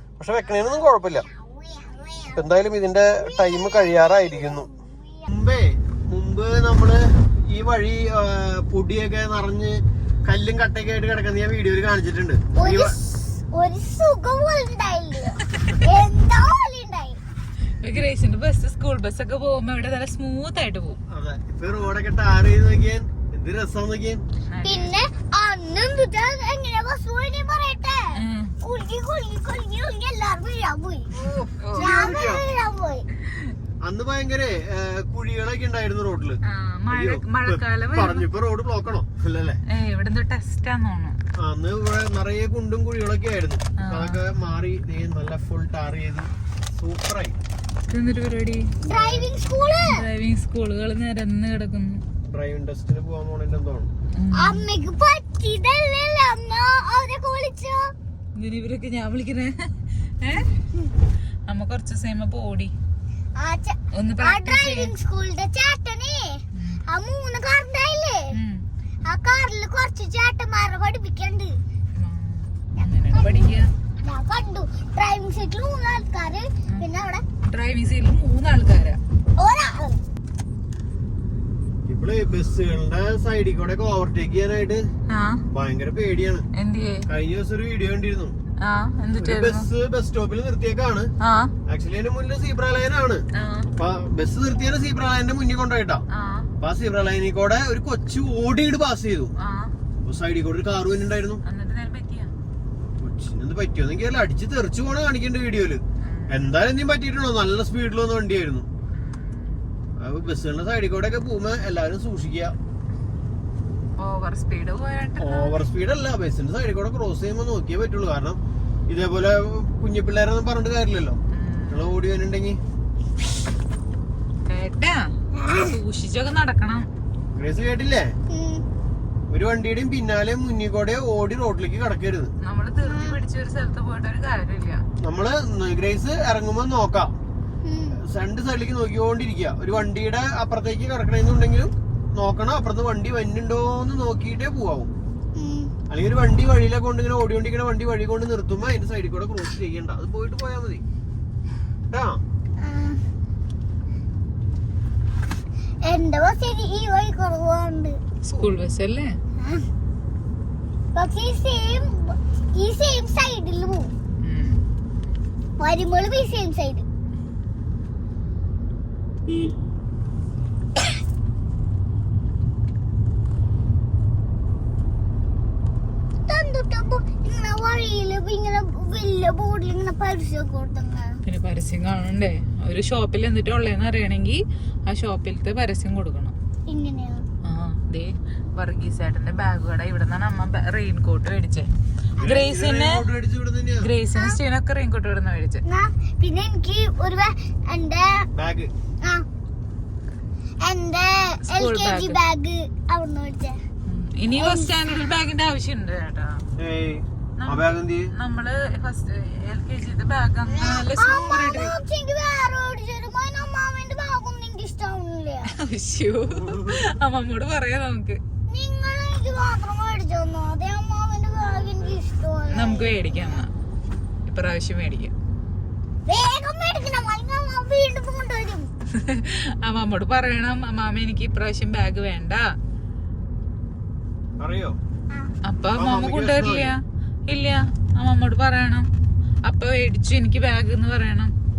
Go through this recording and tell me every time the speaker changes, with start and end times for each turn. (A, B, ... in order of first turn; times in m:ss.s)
0:00.2-0:01.3 A
0:01.3-0:02.4 B
0:02.3-0:04.7 A
0:03.2-0:05.3 B
0:05.3-0:13.0 A
0:12.6-0:17.2 B
0:17.8-0:21.0 C
0:21.1-0:24.2 A
0:24.5-0:24.9 C
0:24.6-0:31.1 B
0:28.1-0:28.5 C
0:31.1-0:32.4 A
0:31.6-0:32.1 C
0:31.8-0:33.0 B
0:33.3-0:33.5 C
0:33.8-0:39.6 A
0:36.5-0:38.3 C
0:39.7-0:41.2 C
0:41.4-0:47.4 A
0:43.8-0:44.2 C
0:47.9-0:48.7 C
0:48.8-0:50.0 B
0:48.9-0:49.3 A
0:49.8-0:52.0 C
0:52.3-0:53.9 A
0:54.2-0:54.7 C
0:54.3-0:57.9 B
0:58.4-1:00.5 C
1:01.5-1:02.7 C
1:03.4-1:08.3 B
1:03.9-1:04.9 C
1:06.6-1:06.8 C
1:08.3-1:08.6 C
1:09.1-1:11.6 B
1:12.0-1:13.7 C
1:12.8-1:17.2 B
1:17.5-1:19.0 C
1:19.4-1:20.0 B
1:21.9-1:24.9 A
1:25.1-1:25.4 C
1:25.5-1:26.5 A
1:26.6-1:27.0 C
1:27.1-1:28.4 A
1:28.6-1:29.7 C
1:29.2-1:31.1 A
1:31.2-1:31.5 C
1:31.7-1:33.2 A
1:33.4-1:33.7 C
1:33.8-1:36.0 A
1:36.1-1:36.5 C
1:36.6-1:39.3 A
1:39.4-1:39.7 C
1:40.0-1:41.4 A
1:41.5-1:42.3 C
1:43.0-1:48.7 A
1:46.0-1:46.5 C
1:50.0-1:52.6 A
1:54.0-1:55.6 C
1:55.2-2:01.2 A
2:01.3-2:01.9 C
2:01.7-2:02.6 A
2:04.5-2:05.0 C
2:05.3-2:05.8 B
2:05.5-2:06.9 C
2:07.4-2:08.2 A
2:08.3-2:08.6 B
2:09.3-2:12.3 A
2:12.4-2:14.8 C
2:12.8-2:13.2 B
2:15.0-2:17.1 A
2:17.6-2:18.0 B
2:18.0-2:24.9 A
2:25.4-2:25.7 B
2:25.9-2:30.8 A
2:31.9-2:32.2 A
2:32.6-2:33.0 B
2:35.8-2:38.0 B
2:38.2-2:39.1 C
2:39.4-2:39.7 B
2:41.0-2:43.9 B
2:44.2-2:44.6 C
2:45.6-2:46.9 B
2:56.3-3:01.2 B
3:01.3-3:06.4 C
3:06.7-3:07.3 B
3:07.4-3:13.0 C
3:12.2-3:12.4 B
3:12.2-3:13.9 A
3:13.8-3:15.6 C
3:15.7-3:18.3 B
3:18.3-3:18.7 A
3:20.6-3:23.6 B
3:21.4-3:22.2 C
3:23.9-3:26.4 C
3:24.3-3:24.8 B
3:26.6-3:28.1 A
3:27.4-3:31.8 C
3:30.5-3:35.5 B
3:35.5-3:38.2 C
3:36.3-3:36.9 A
3:38.5-3:43.4 B
3:42.5-3:43.5 C
3:44.3-3:45.1 C
3:46.1-3:48.7 B
3:48.9-3:52.4 C
3:54.4-3:54.8 A
3:55.4-3:56.8 C
3:55.8-3:56.7 A
3:57.3-3:58.9 C
3:59.4-4:01.3 C